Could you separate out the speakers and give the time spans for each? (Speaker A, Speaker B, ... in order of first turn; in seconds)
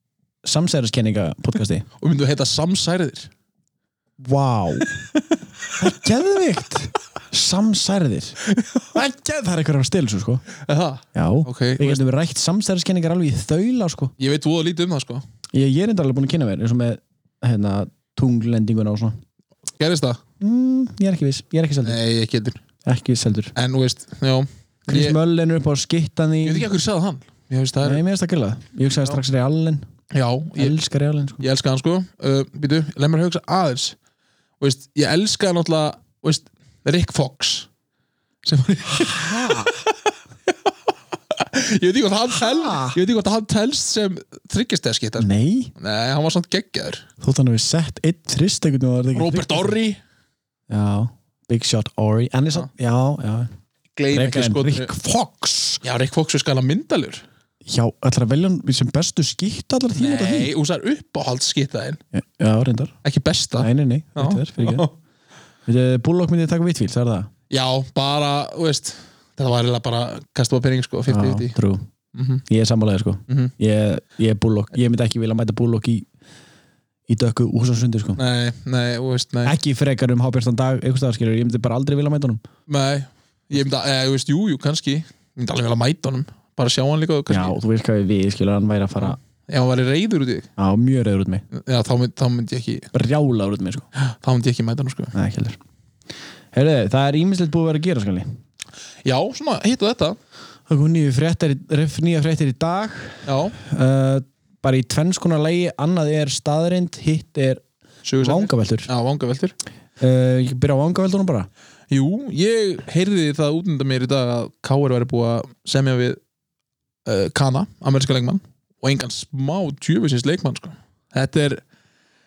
Speaker A: 0.4-1.9, 4.2-5.0, 5.8-8.4, 8.9-10.4, 11.1-14.1, 15.5-19.2, 20.4-22.0, 22.8-23.5, 24.9-26.7, 27.8-29.9, 30.6-31.4, 39.0-39.7, 42.4-43.0, 45.2-45.7, 47.2-49.8, 50.7-53.5, 54.1-55.8, 57.6-60.5, 62.1-63.0, 63.6-64.9, 65.7-67.3, 71.1-71.9, 72.5-76.1, 77.1-78.2, 79.5-82.4, 87.3-89.2, 90.6-91.4, 92.9-93.9, 95.1-95.6, 96.5-98.3, 100.7-107.6, 108.2-108.9, 110.0-111.5
Speaker B: 2.0-3.3, 8.6-8.8, 10.6-12.0, 14.2-15.2, 19.8-20.2, 21.8-22.6, 23.6-25.2, 26.4-28.0, 30.1-30.8, 31.4-34.0, 34.6-37.7, 38.4-40.5, 41.3-47.1, 49.1-50.0, 54.0-54.9, 55.8-57.2, 60.0-62.0, 63.0-64.9, 67.5-71.5, 72.1-72.4, 73.3-73.5, 78.2-79.5, 82.7-87.6, 89.0-90.5, 91.5-92.9, 94.0-95.1, 99.0-100.2, 103.3-103.6, 108.0-109.5, 111.9-116.2, 117.1-121.6